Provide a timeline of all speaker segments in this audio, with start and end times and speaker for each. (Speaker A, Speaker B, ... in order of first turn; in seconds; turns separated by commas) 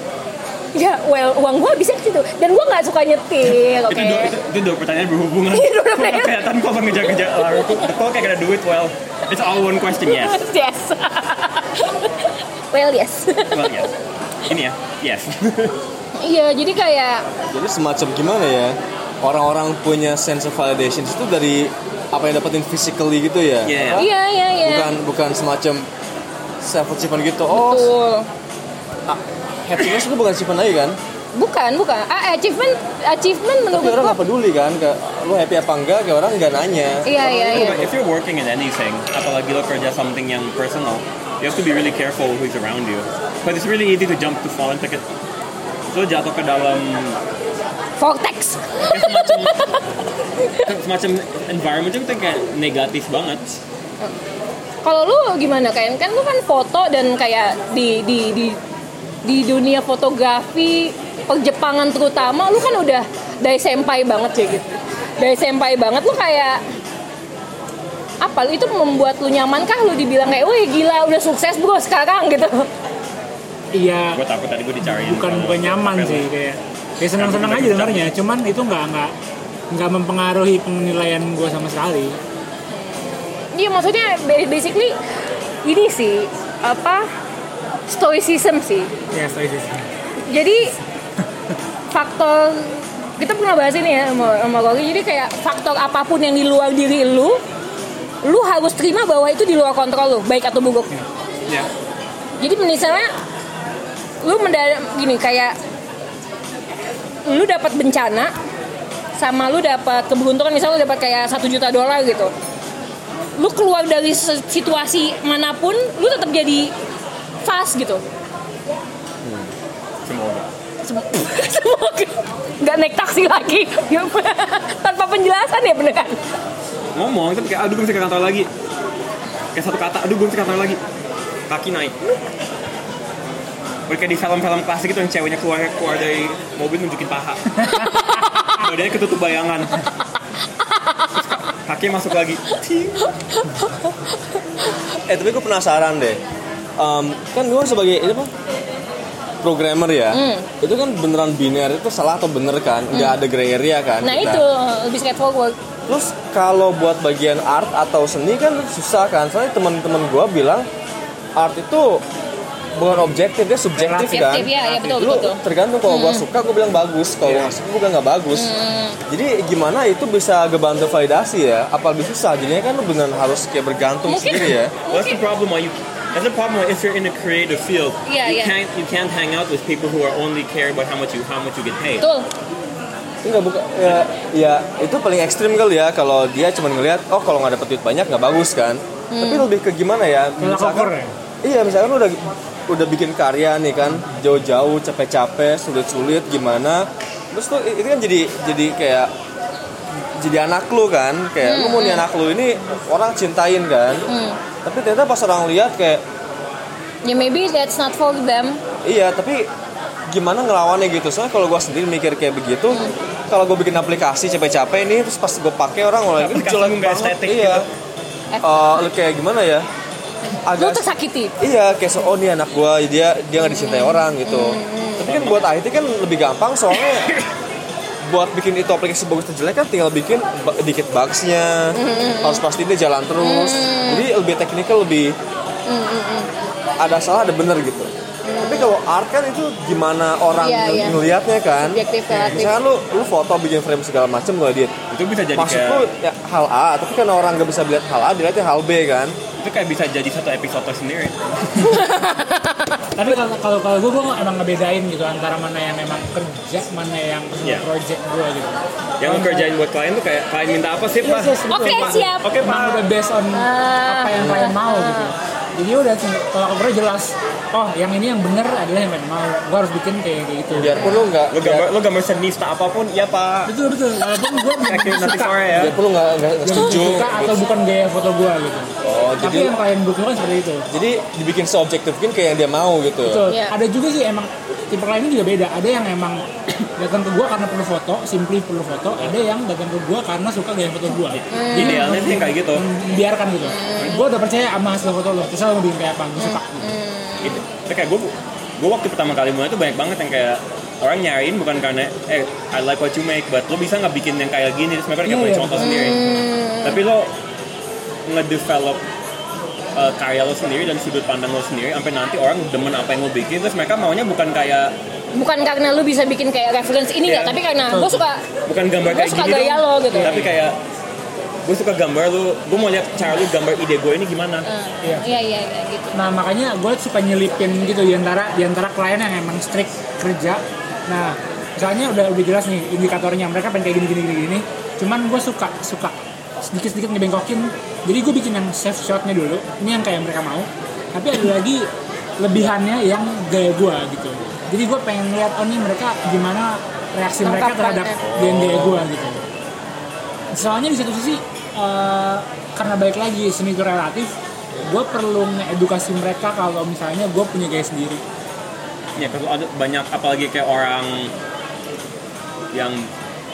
Speaker A: 0.8-4.3, Speaker B: 3.9-10.4, Speaker A: 5.5-6.4, Speaker A: 7.2-7.9, Speaker A: 10.0-13.9, Speaker B: 13.5-13.9, Speaker B: 14.5-15.8, Speaker A: 16.2-17.3, Speaker C: 17.5-24.1, Speaker B: 23.6-24.1, Speaker A: 24.0-24.9, Speaker C: 24.6-25.9, Speaker C: 26.6-27.9, Speaker A: 27.5-28.3, Speaker C: 29.1-31.0, Speaker A: 31.4-34.2, Speaker C: 33.7-37.9, Speaker A: 37.0-37.8, Speaker B: 37.5-45.0, Speaker B: 45.9-47.2, Speaker A: 48.0-49.8, Speaker B: 48.9-49.8, Speaker A: 50.4-50.7, Speaker B: 50.6-53.4, Speaker A: 54.8-58.6, Speaker A: 59.2-66.6, Speaker A: 68.2-72.7, Speaker D: 73.7-74.2, Speaker B: 74.1-76.3, Speaker D: 74.8-79.1, Speaker B: 77.1-78.1, Speaker D: 79.7-82.2, Speaker A: 82.7-85.0, Speaker A: 85.7-87.1, Speaker A: 87.9-88.9, Speaker D: 89.1-89.9, Speaker A: 90.2-90.7, Speaker A: 91.9-97.4, Speaker A: 98.2-100.9, Speaker A: 102.4-103.1, Speaker A: 104.2-105.6, Speaker A: 107.3-108.3, Speaker A: 109.2-112.3, Speaker A: 113.4-116.7, Speaker A: 117.4-118.0, Speaker B: 120.1-120.5, Speaker A: 120.8-126.3, Speaker B: 127.0-128.5, Speaker B: 129.5-130.8, Speaker B: 131.5-132.2, Speaker B: 133.9-139.8, Speaker A: 137.8-138.6, Speaker A: 140.6-141.2, Speaker B: 141.1-143.0, Speaker A: 143.0-144.8, Speaker C: 145.1-146.2, Speaker C: 146.8-148.3, Speaker C: 149.4-154.4, Speaker A: 150.1-150.5, Speaker A: 152.9-153.2, Speaker A: 154.0-155.6, Speaker C: 155.9-160.7, Speaker C: 161.4-162.0, Speaker C: 162.8-168.5, Speaker D: 163.8-164.8, Speaker A: 164.1-166.2, Speaker B: 167.2-167.5, Speaker A: 168.3-169.0, Speaker C: 169.1-174.7, Speaker A: 174.1-175.2, Speaker B: 174.9-182.0, Speaker A: 178.1-178.6, Speaker A: 182.0-182.3, Speaker C: 183.2-199.1, Speaker A: 189.1-189.5, Speaker D: 190.4-191.1, Speaker C: 200.2-204.1, Speaker A: 201.4-202.0, Speaker A: 204.1-204.4, Speaker C: 204.6-206.0, Speaker A: 207.1-208.6, Speaker C: 208.8-209.5, Speaker C: 210.1-217.7, Speaker B: 216.2-217.7, Speaker C: 218.4-219.7, Speaker C: 220.4-220.9, Speaker A: 220.6-221.3, Speaker C: 221.4-227.2, Speaker A: 223.5-225.1, Speaker B: 225.1-225.4, Speaker C: 228.0-235.2, Speaker A: 231.8-232.4, Speaker A: 233.2-234.1, Speaker A: 235.7-236.3, Speaker C: 236.8-244.8, Speaker A: 238.2-238.7, Speaker A: 240.4-241.0, Speaker A: 241.7-242.6, Speaker D: 242.1-242.4, Speaker B: 244.9-245.9, Speaker C: 245.3-249.2, Speaker B: 249.4-251.8, Speaker A: 251.6-252.8, Speaker D: 252.9-259.5, Speaker B: 257.4-257.7, Speaker B: 259.0-262.9, Speaker D: 261.0-271.0, Speaker A: 261.5-262.3, Speaker A: 263.3-265.1, Speaker C: 270.5-271.7, Speaker B: 271.3-273.6, Speaker D: 273.5-275.7, Speaker B: 274.5-275.7, Speaker C: 275.5-277.4, Speaker D: 276.4-280.7, Speaker C: 278.8-279.6, Speaker C: 280.7-283.3, Speaker D: 283.0-296.8, Speaker A: 283.3-283.6, Speaker B: 291.1-292.6, Speaker A: 291.3-291.9, Speaker A: 293.4-294.1, Speaker A: 296.2-297.4, Speaker B: 297.2-307.1, Speaker D: 305.1-306.0, Speaker A: 305.6-306.8, Speaker B: 308.1-308.8, Speaker B: 309.8-314.8, Speaker A: 315.1-318.2, Speaker B: 317.1-317.4, Speaker D: 317.7-318.0, Speaker B: 318.5-320.6, Speaker A: 318.8-320.3, Speaker D: 319.9-320.4, Speaker B: 321.4-324.5, Speaker A: 324.5-326.0, Speaker D: 325.9-349.2, Speaker A: 347.2-348.0, Speaker B: 348.0-348.9, Speaker D: 350.3-358.0, Speaker B: 359.0-361.1, Speaker B: 362.5-362.9